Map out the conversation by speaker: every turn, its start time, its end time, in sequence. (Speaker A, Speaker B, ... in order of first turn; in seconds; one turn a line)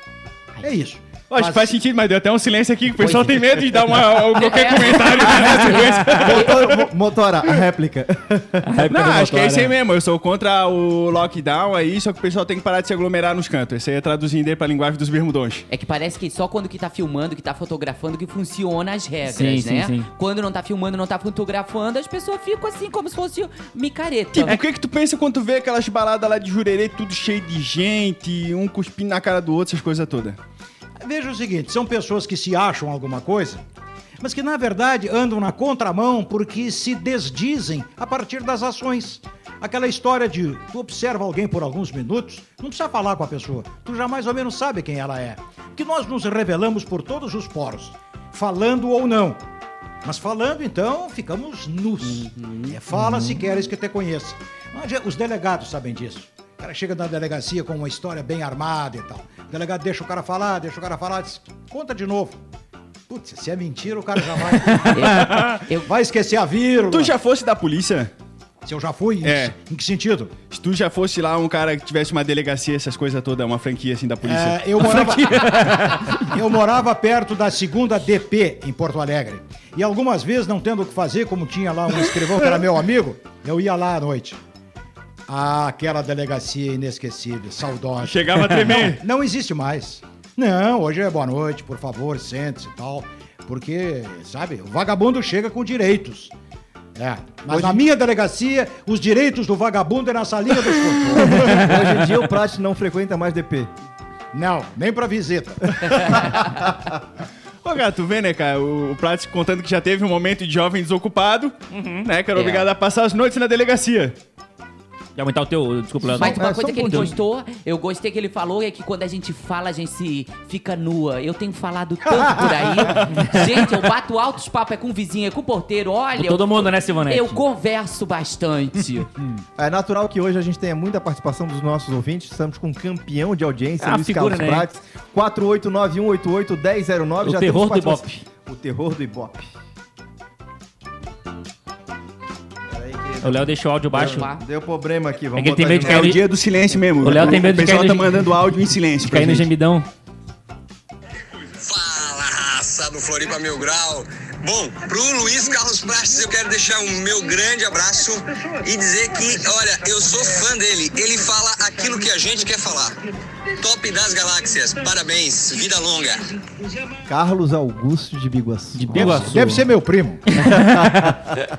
Speaker A: 0.6-1.7
Speaker B: 1.3-6.9
Speaker C: 3.0-3.6
Speaker C: 4.3-6.5
Speaker D: 5.8-6.2
Speaker E: 6.0-8.6
Speaker D: 8.6-9.7
Speaker B: 8.9-15.7
Speaker C: 15.7-24.6
Speaker D: 19.2-20.1
Speaker B: 24.4-30.4
Speaker A: 31.0-33.6
Speaker A: 34.2-49.4
Speaker A: 50.0-62.4
Speaker C: 52.0-52.8
Speaker A: 63.1-64.9
Speaker D: 64.7-65.2
Speaker C: 64.9-65.9
Speaker B: 65.3-65.6
Speaker A: 65.8-67.1
Speaker B: 66.9-68.1
Speaker A: 68.7-70.3
Speaker B: 69.2-69.5
Speaker B: 70.5-75.2
Speaker A: 74.2-84.4
Speaker D: 75.0-76.2
Speaker A: 85.3-96.3
Speaker B: 88.1-89.0
Speaker A: 97.0-101.6
Speaker E: 97.5-97.8
Speaker E: 101.2-103.7
Speaker A: 104.3-106.1
Speaker B: 107.6-114.2
Speaker D: 111.7-112.1
Speaker C: 112.3-112.7
Speaker D: 115.2-117.1
Speaker C: 116.2-129.1
Speaker E: 116.3-117.2
Speaker D: 126.2-127.4
Speaker E: 129.6-139.5
Speaker D: 133.8-134.7
Speaker D: 137.2-138.3
Speaker E: 142.7-146.2
Speaker D: 143.2-144.3
Speaker C: 144.0-144.4
Speaker D: 145.4-146.2
Speaker B: 145.9-149.5
Speaker D: 147.0-148.1
Speaker D: 149.1-149.9
Speaker F: 151.6-163.0
Speaker F: 163.6-166.2
Speaker A: 166.4-166.9
Speaker E: 167.1-169.4
Speaker D: 168.8-169.7
Speaker A: 168.9-170.2
Speaker D: 170.3-171.3
Speaker E: 170.5-171.1